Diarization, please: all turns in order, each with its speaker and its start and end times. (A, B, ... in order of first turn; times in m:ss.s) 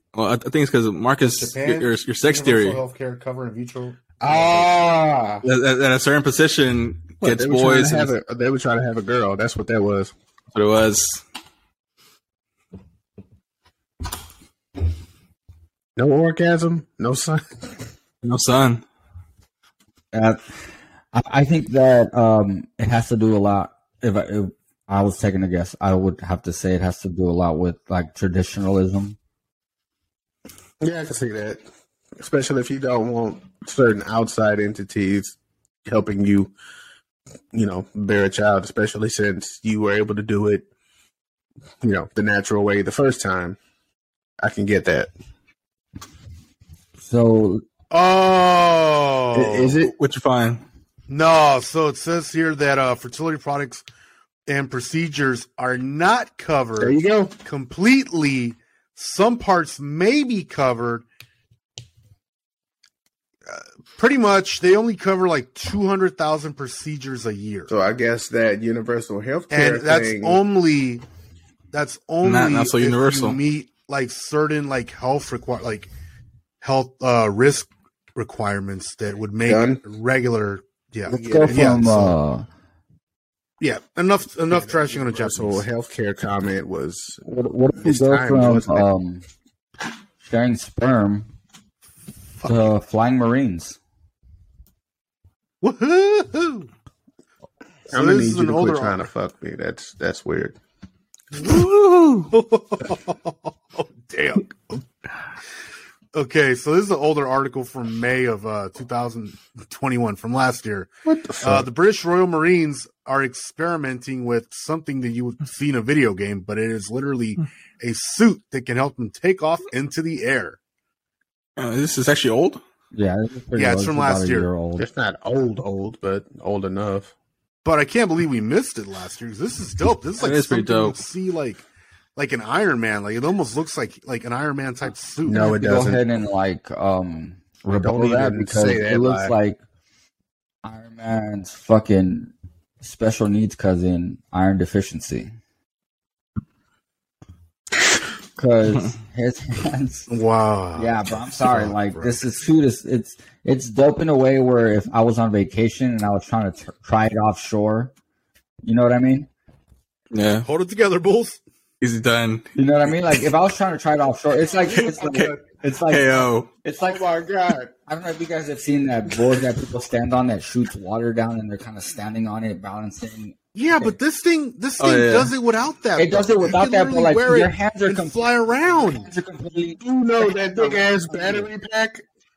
0:00.1-0:02.8 A
0:01.3-0:04.7 B
0:04.2-0:05.4 C
0:05.4-0:08.1 A
0:07.2-0:10.1 C
0:10.5-0:11.2 A
0:16.0-0:17.7 C
0:18.2-0:18.8 A
0:20.1-0:20.4 D
0:21.1-0:29.2 D
0:30.8-0:31.6 C
0:32.2-0:36.5 C
0:37.5-0:40.6 C
0:41.8-0:43.6 C
0:44.4-0:45.1 C
0:47.0-0:47.6 D
0:47.9-0:49.8 B
0:49.3-0:49.9 C
0:50.0-0:50.6 A
0:51.1-0:53.8 B
0:54.5-1:01.0 B
0:56.8-0:57.3 C
1:03.5-1:07.7 B
1:07.7-1:10.4 C
1:09.5-1:11.0 B
1:11.7-1:15.9 B
1:12.2-1:13.4 A
1:16.6-1:22.1 B
1:19.4-1:19.8 C
1:21.1-1:22.5 D
1:21.1-1:22.1 C
1:23.6-1:25.6 B
1:24.5-1:28.9 C
1:27.3-1:29.2 D
1:30.2-1:31.3 D
1:32.4-1:33.8 D
1:35.6-1:36.7 B
1:37.9-1:39.0 B
1:37.9-1:40.6 C
1:41.4-1:44.8 B
1:46.1-1:50.9 B
1:51.1-1:51.7 C
1:51.4-2:00.6 B
2:01.6-2:02.6 A
2:02.9-2:04.9 D
2:03.6-2:04.5 B
2:04.8-2:07.1 C
2:07.6-2:11.6 B
2:10.2-2:11.0 A
2:12.2-2:15.6 B
2:15.2-2:16.0 C
2:15.3-2:19.6 D
2:17.7-2:19.4 C
2:20.6-2:25.3 D
2:28.4-2:30.1 D
2:30.1-2:30.9 B
2:30.8-2:37.9 D
2:31.5-2:32.2 B
2:38.6-2:39.3 D
2:40.1-2:40.5 A
2:40.5-2:41.4 B
2:41.8-2:42.5 A
2:42.6-2:47.0 D
2:44.7-2:45.3 A
2:44.8-2:45.4 C
2:45.9-2:46.5 A
2:46.8-2:47.7 C
2:47.9-2:54.0 D
2:53.6-2:59.1 B
2:54.8-2:55.3 A
2:56.0-3:01.5 D
2:59.8-3:02.0 C